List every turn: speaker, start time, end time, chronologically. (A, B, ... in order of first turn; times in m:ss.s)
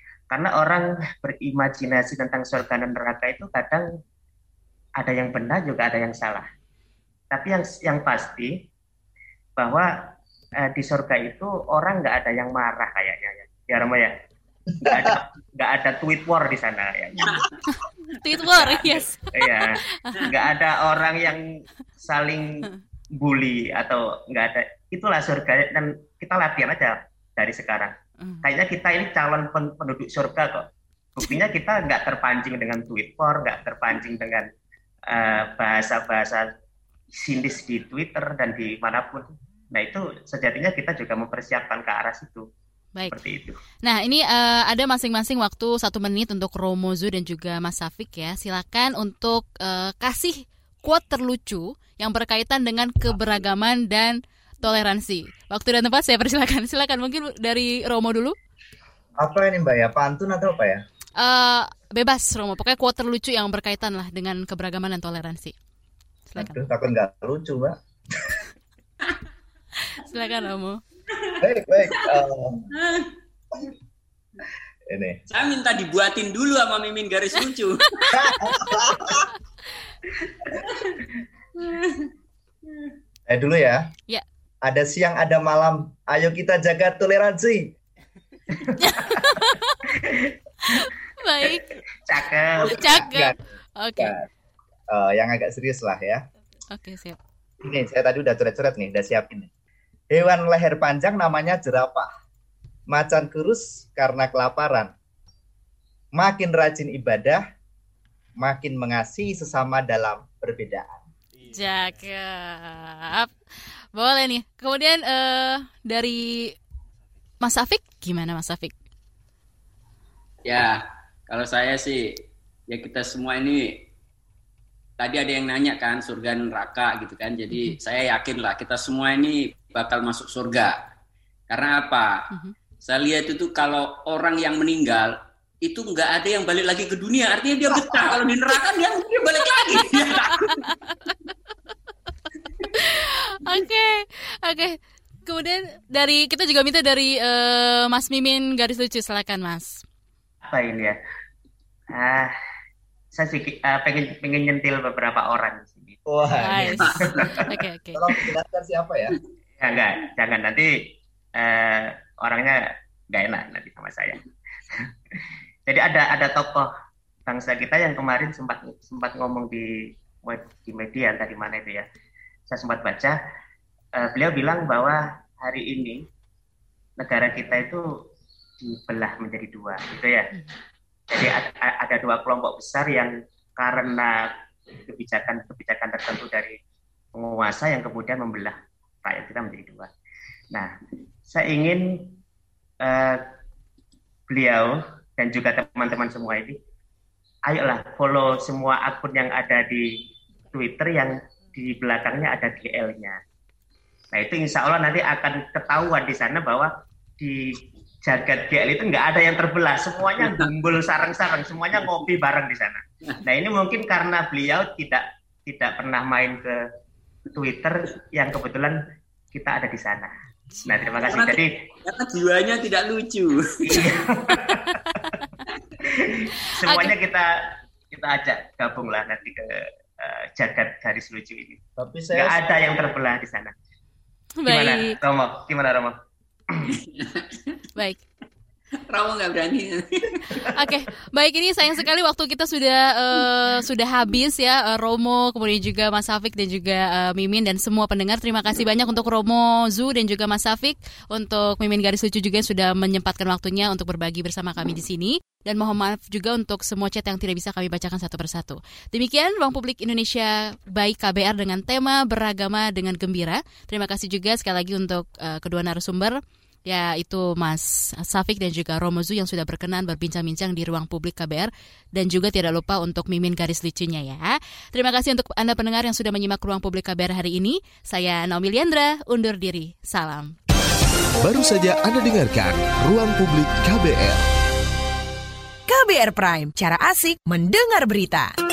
0:00.3-0:03.9 A
0:05.0-0:06.5 A
0:07.3-0:08.5 A
0:09.6-0:14.1 A
0:14.8-0:15.1 B
0:14.8-0:17.5 A
0:17.7-0:20.2 C
0:18.3-0:21.4 A
0:22.0-0:22.6 A
0:23.2-0:34.5 A
0:35.1-0:36.4 A
0:37.1-0:42.4 A
0:43.1-0:43.6 A
0:43.8-0:58.4 C
0:59.2-1:00.8 B
1:01.2-1:05.5 C
1:06.3-1:06.6 C
1:06.4-1:08.4 B
1:10.0-1:10.8 C
1:11.4-1:12.7 B
1:12.8-1:13.1 D
1:14.9-1:15.2 B
1:15.3-1:18.2 D
1:18.1-1:18.6 C
1:18.1-1:19.2 B
1:21.6-1:22.1 D
1:23.3-1:23.8 B
1:24.6-1:27.7 B
1:28.7-1:29.8 C
1:29.9-1:30.3 A
1:30.7-1:31.6 C
1:31.4-1:33.0 A
1:32.6-1:34.1 C
1:32.7-1:33.4 B
1:34.0-1:34.3 B
1:34.9-1:36.2 B
1:36.7-1:37.2 C
1:37.6-1:39.5 B
1:40.1-1:42.1 B
1:42.9-1:44.9 B
1:46.1-1:47.4 B
1:48.4-1:51.0 B
1:51.4-1:53.3 C
1:53.9-1:56.5 C
1:57.4-1:58.7 C
2:00.4-2:03.8 D
2:05.0-2:10.8 D
2:07.5-2:07.8 C
2:11.5-2:12.1 D
2:12.8-2:15.1 D
2:15.6-2:20.6 D
2:19.6-2:21.1 C
2:22.7-2:29.8 C
2:30.5-2:31.0 A
2:31.9-2:32.3 A
2:33.1-2:36.0 A
2:36.0-2:37.4 B
2:36.4-2:38.0 C
2:36.9-2:37.4 A
2:37.9-2:39.2 B
2:39.6-2:40.7 A
2:41.4-2:46.7 A
2:47.3-2:51.8 A
2:52.5-2:53.2 A
2:54.0-2:56.0 A
2:57.0-2:57.9 A
2:58.6-3:00.3 A
3:01.1-3:06.5 A
3:07.1-3:09.9 A
3:11.3-3:12.1 A
3:12.8-3:13.2 A
3:14.3-3:16.6 A
3:17.5-3:19.9 A
3:20.5-3:23.2 A
3:24.1-3:36.6 A
3:37.3-3:38.8 A
3:39.3-3:40.1 A
3:40.6-3:41.5 A
3:41.0-3:43.9 D
3:43.6-3:45.0 A
3:45.8-3:51.6 A
3:46.7-3:46.9 C
3:51.8-3:52.4 B
3:52.1-3:53.5 A
3:54.4-3:55.0 C
3:54.5-3:56.0 A
3:56.7-3:57.6 D
3:57.8-3:58.0 C
3:58.9-4:00.4 D
4:00.4-4:26.2 C
4:26.7-4:40.4 C
4:41.2-4:44.2 E
4:45.7-4:48.3 F